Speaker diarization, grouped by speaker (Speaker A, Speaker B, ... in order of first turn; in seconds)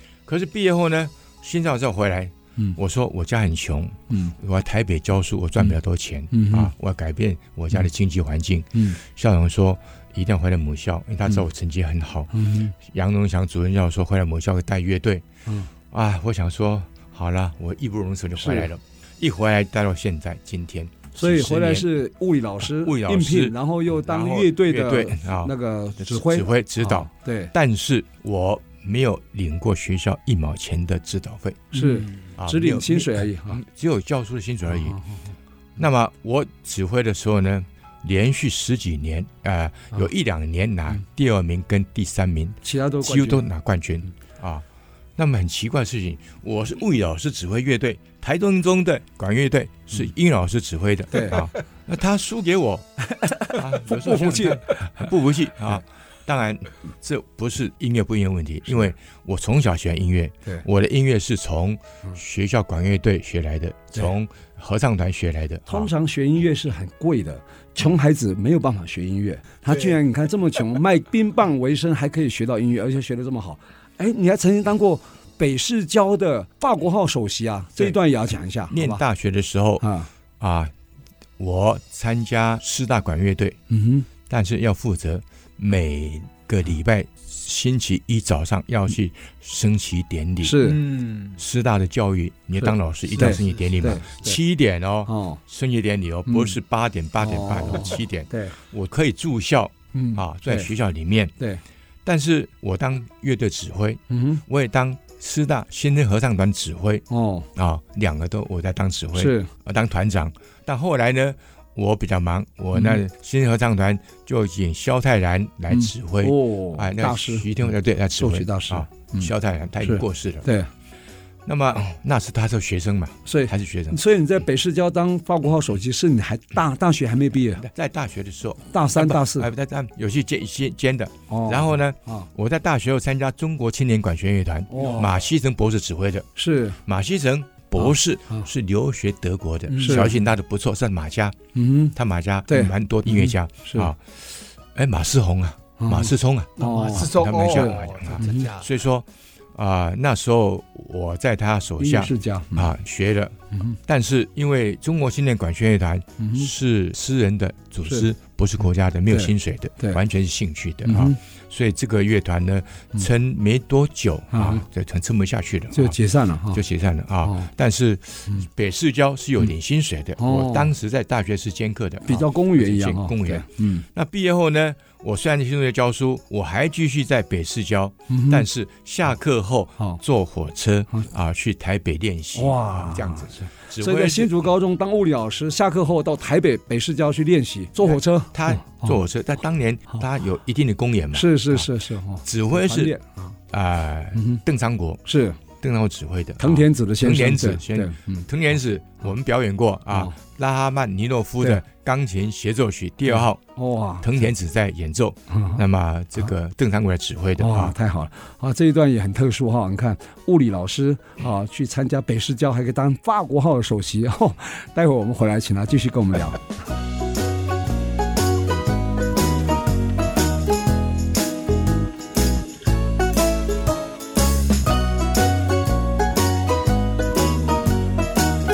Speaker A: 0.3-15.2, 15.9-21.9, 22.6-31.8, 32.4-35.0, 35.8-52.9, 53.5-65.9, 78.7-79.8, 80.4-80.7, 81.4-83.6, 84.3-90.8, 91.3-101.3, 102.0-107.0, 107.5-120.5, 121.4-124.0, 127.6-141.4, 141.9-166.0, 166.5-184.5, 187.8-191.7, 192.2-192.9, 193.5-203.4, 204.0-207.7
Speaker B: 4.1-4.3, 6.3-6.7, 8.7-9.0, 12.3-12.7, 18.4-18.7, 21.1-27.5, 31.7-33.6, 34.7-35.1, 42.6-43.5, 51.1-51.4, 53.1-55.1, 65.7-79.0, 79.8-80.1, 83.7-84.1, 90.4-90.8, 92.6-94.4, 95.1-95.4, 96.3-96.6, 97.2-98.5, 99.9-100.7, 104.1-104.4, 107.1-107.5, 109.1-109.5, 112.7-113.0, 115.7-117.5, 118.2-120.7, 123.2-127.6, 128.7-129.5, 131.3-132.3, 134.7-135.1, 136.3-136.8, 137.8-138.5, 139.7-140.2, 141.5-141.9, 142.5-143.9, 145.8-148.5, 151.8-152.7, 156.2-156.5, 159.1-160.0, 160.8-161.2, 164.3-164.6, 165.7-166.6, 167.2-167.5, 170.2-170.7, 172.0-173.8, 178.1-178.4, 182.3-189.0, 191.1-193.3, 194.1-194.4, 195.0-195.4, 196.4-198.3, 199.9-200.2, 203.1-204.1, 205.3-205.6, 207.4-216.5
Speaker C: 90.6-91.4, 93.2-93.7, 139.8-140.0, 146.6-148.7